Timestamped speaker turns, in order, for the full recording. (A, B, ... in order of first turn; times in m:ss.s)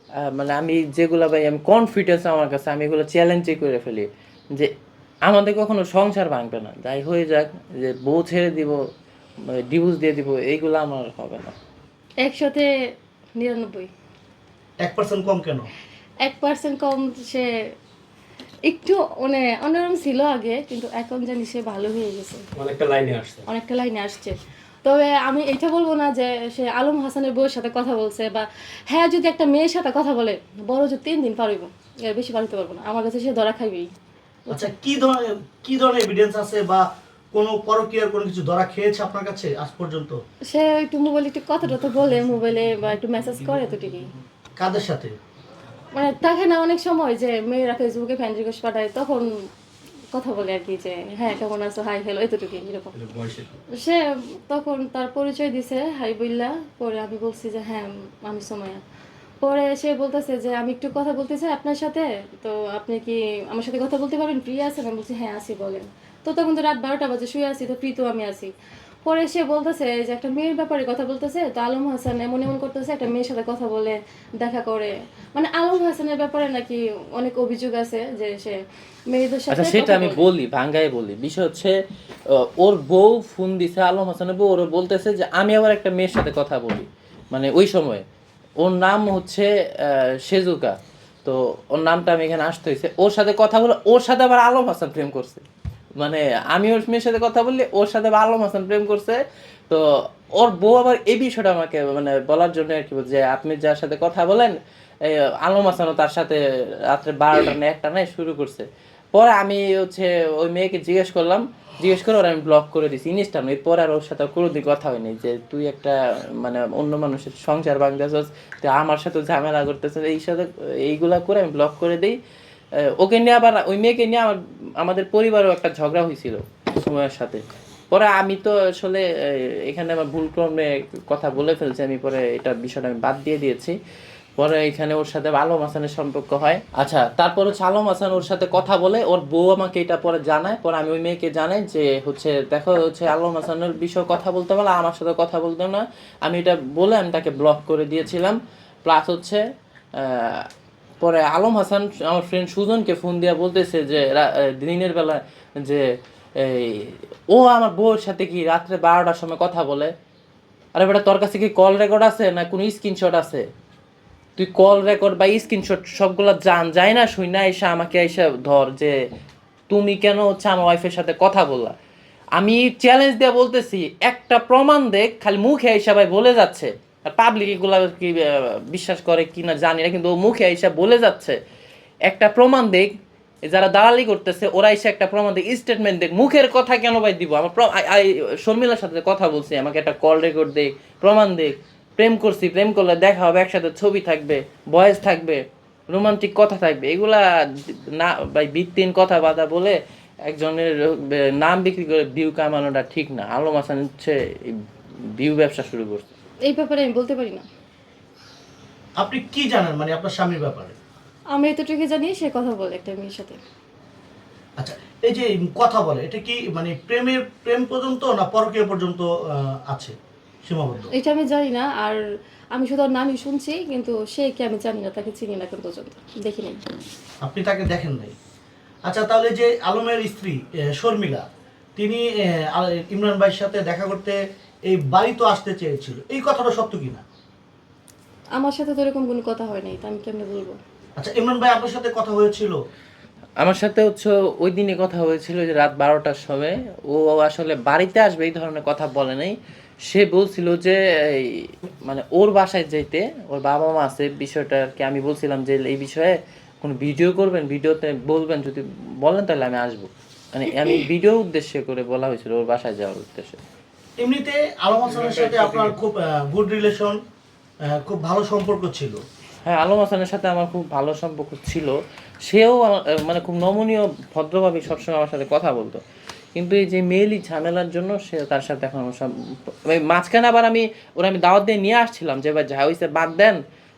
0:00.2-0:04.7 A
0:05.3-0:08.8 A
0:09.7-0:11.6 A
0:12.2-0:12.7 B
0:13.4-0:13.9 B
0:14.8-0:15.7 C
0:16.2-0:17.5 B
0:18.7-0:22.4 B
0:22.6-0:23.4 D
0:23.5-0:33.9 B
0:34.5-0:40.2 C
0:40.5-0:44.1 B
0:44.6-0:45.2 C
0:46.0-0:49.3 B
0:50.1-0:52.9 B
0:52.9-0:53.5 D
0:53.8-0:58.8 B
0:59.4-1:08.5 B
1:09.0-1:18.6 B
1:19.1-1:20.3 B
1:19.5-1:21.8 A
1:22.3-1:28.0 A
1:28.6-1:35.4 A
1:36.0-1:39.8 A
1:40.4-2:02.2 A
2:02.9-2:13.8 A
2:14.4-2:29.4 A
2:30.0-2:30.5 A
2:31.0-2:39.9 A
2:40.8-2:43.5 A
2:44.4-2:49.0 A
2:49.7-2:51.8 A
2:52.4-3:01.4 A
3:02.1-3:02.9 A
3:03.5-3:24.6 A
3:25.2-3:26.1 A
3:26.5-3:27.5 B
3:29.0-3:30.8 C
3:31.4-3:33.4 B
3:34.6-3:40.9 C
3:40.9-3:42.0 B
3:42.6-3:46.6 B
3:47.2-3:48.1 C
3:48.9-3:51.3 C
3:51.8-3:57.0 C
3:58.4-4:00.6 B
4:01.0-4:02.6 C
4:03.4-4:09.4 A
4:09.9-4:23.4 A
4:24.0-4:27.0 C
4:24.8-4:25.8 D
4:27.7-4:29.0 C
4:29.5-4:35.8 A
4:36.4-4:43.4 A